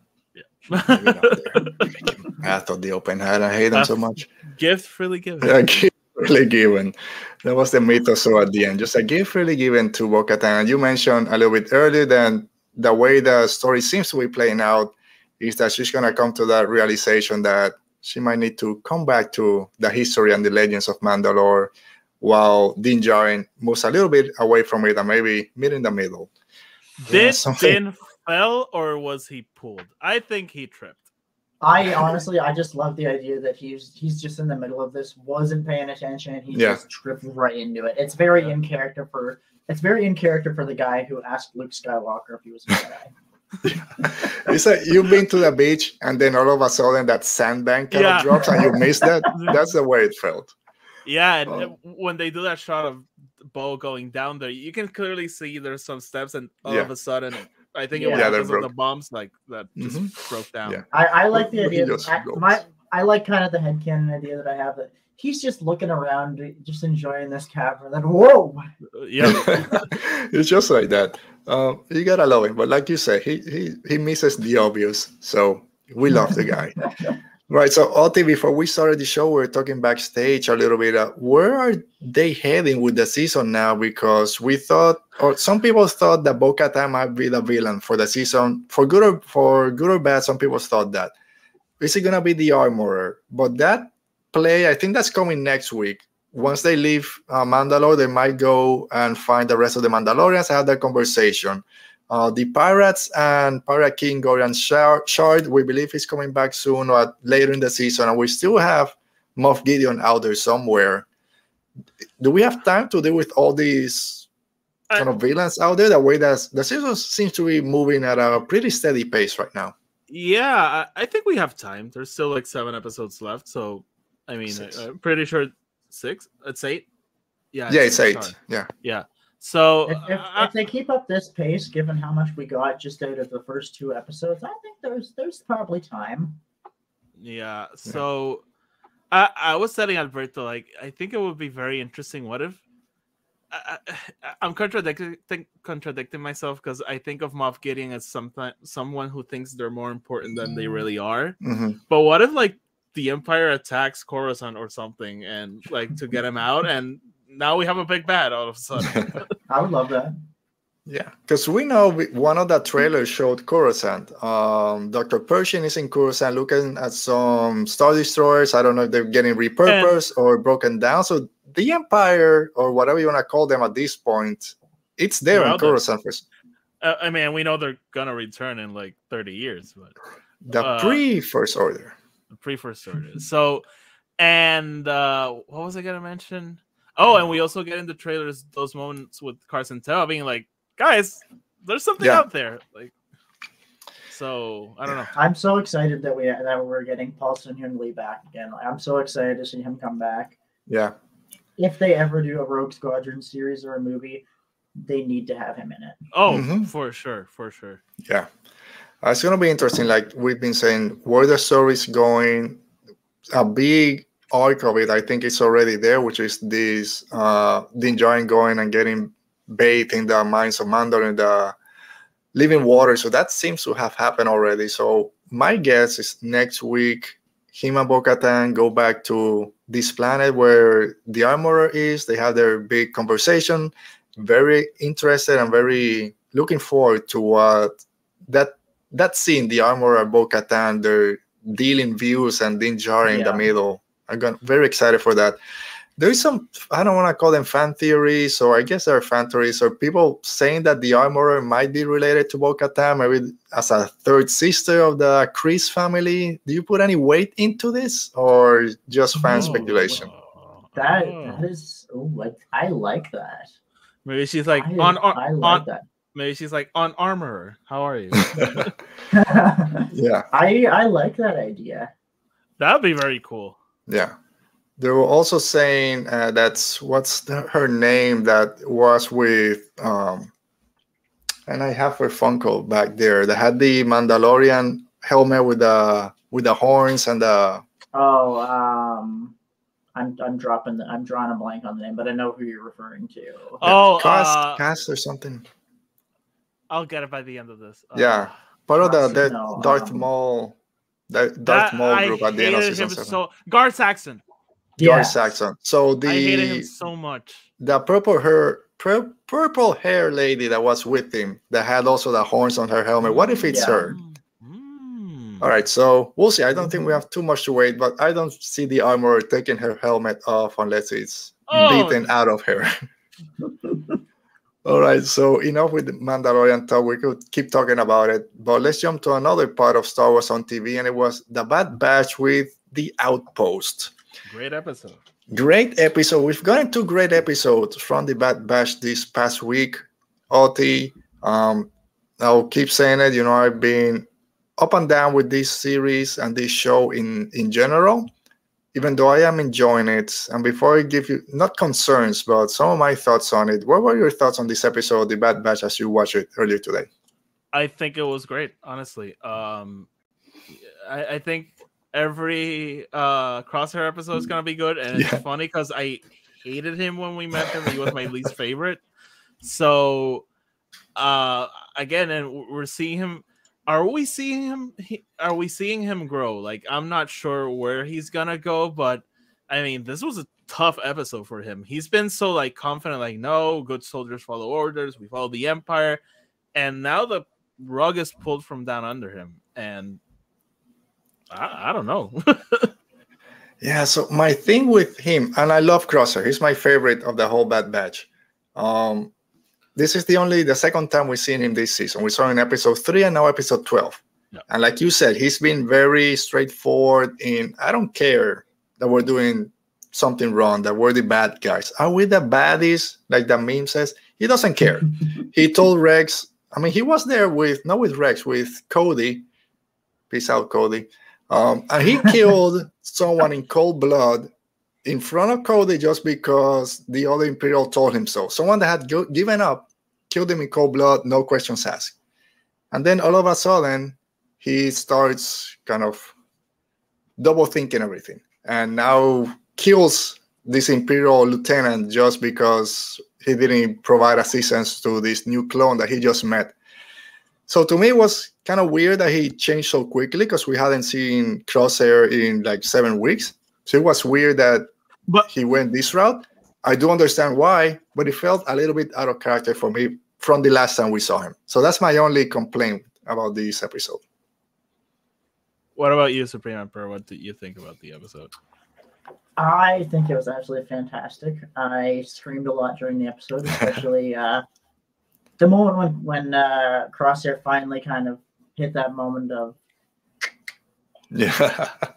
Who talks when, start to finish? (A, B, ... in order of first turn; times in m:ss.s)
0:00.4-0:01.9 A
0:00.7-0:04.3 B
0:04.6-0:05.6 A
0:05.4-0:26.3 B
0:27.0-0:31.1 A
0:27.1-0:27.8 B
0:31.6-0:43.1 C
0:36.5-0:36.8 B
0:43.6-0:50.5 B
0:44.0-0:44.5 C
0:47.9-0:48.7 A
0:49.3-0:49.6 A
0:51.0-1:00.8 A
0:56.6-0:56.9 B
0:57.9-0:58.3 C
0:58.1-0:58.7 B
0:59.8-1:02.6 B
1:00.9-1:08.6 C
1:09.0-1:09.9 A
1:09.2-1:16.8 B
1:17.5-1:31.1 B
1:31.8-1:51.1 B
1:52.2-1:54.3 B
1:55.0-1:59.7 B
2:00.1-2:06.9 A
2:04.5-2:04.8 B
2:07.5-2:10.5 A
2:07.7-2:08.7 B
2:09.9-2:16.4 C
2:17.2-2:18.4 A
2:19.1-2:22.6 A
2:23.5-2:31.4 A
2:31.4-2:31.8 B
2:31.9-2:39.3 A
2:39.5-2:40.2 C
2:40.9-2:56.2 B
2:49.7-2:50.0 A
2:55.3-2:55.8 A
2:56.8-2:59.9 A
3:00.4-3:02.0 B
3:00.6-3:01.0 A
3:02.3-3:03.6 A
3:04.2-3:12.9 A
3:12.0-3:12.2 B
3:14.1-3:15.2 A
3:15.1-3:20.4 C
3:20.7-3:21.0 B
3:21.6-3:24.2 C
3:24.8-3:26.0 C
3:26.1-3:27.8 A
3:26.3-3:26.7 B
3:29.0-3:32.6 B
3:33.3-3:41.6 B
3:42.3-4:05.4 B
4:03.1-4:03.4 C
4:06.0-4:20.1 B
4:19.2-4:21.4 A
4:20.8-4:23.5 C
4:24.0-4:28.7 A
4:24.6-4:25.8 C
4:28.2-4:28.7 B
4:29.1-4:31.9 C
4:29.9-4:30.3 B
4:32.6-4:33.6 A
4:33.9-4:34.2 B
4:34.8-4:40.3 B
4:41.5-4:47.6 B
4:47.9-4:49.4 C
4:50.0-4:53.6 C
4:53.6-4:54.6 A
4:53.6-4:55.4 B
4:56.7-4:58.3 A
4:58.0-5:00.6 B
4:58.8-5:00.1 C
5:01.1-5:03.2 B
5:01.5-5:04.2 A
5:04.8-5:06.7 B
5:04.8-5:05.2 C
5:06.0-5:07.5 A
5:07.6-5:14.0 B
5:13.0-5:15.5 A
5:13.5-5:13.9 C
5:15.4-5:22.7 B
5:21.5-5:22.1 A
5:24.6-5:33.9 B
5:34.3-5:35.0 A
5:35.3-5:44.1 B
5:44.6-5:48.1 B
5:48.7-5:56.9 B
5:57.5-5:59.9 A
6:00.8-6:08.8 A
6:04.9-6:05.2 B
6:09.4-6:10.3 A
6:11.0-6:26.0 A
6:26.6-6:30.0 A
6:31.3-6:32.7 A
6:33.6-6:39.1 B
6:39.8-6:59.2 B
7:00.1-7:04.3 B
7:04.8-7:12.0 B
7:12.7-7:16.1 B
7:17.2-7:26.6 B
7:27.5-7:34.7 B
7:35.3-7:44.0 B
7:45.8-7:48.3 A
7:49.4-7:54.4 C
7:55.4-7:59.6 C
8:01.1-8:01.9 B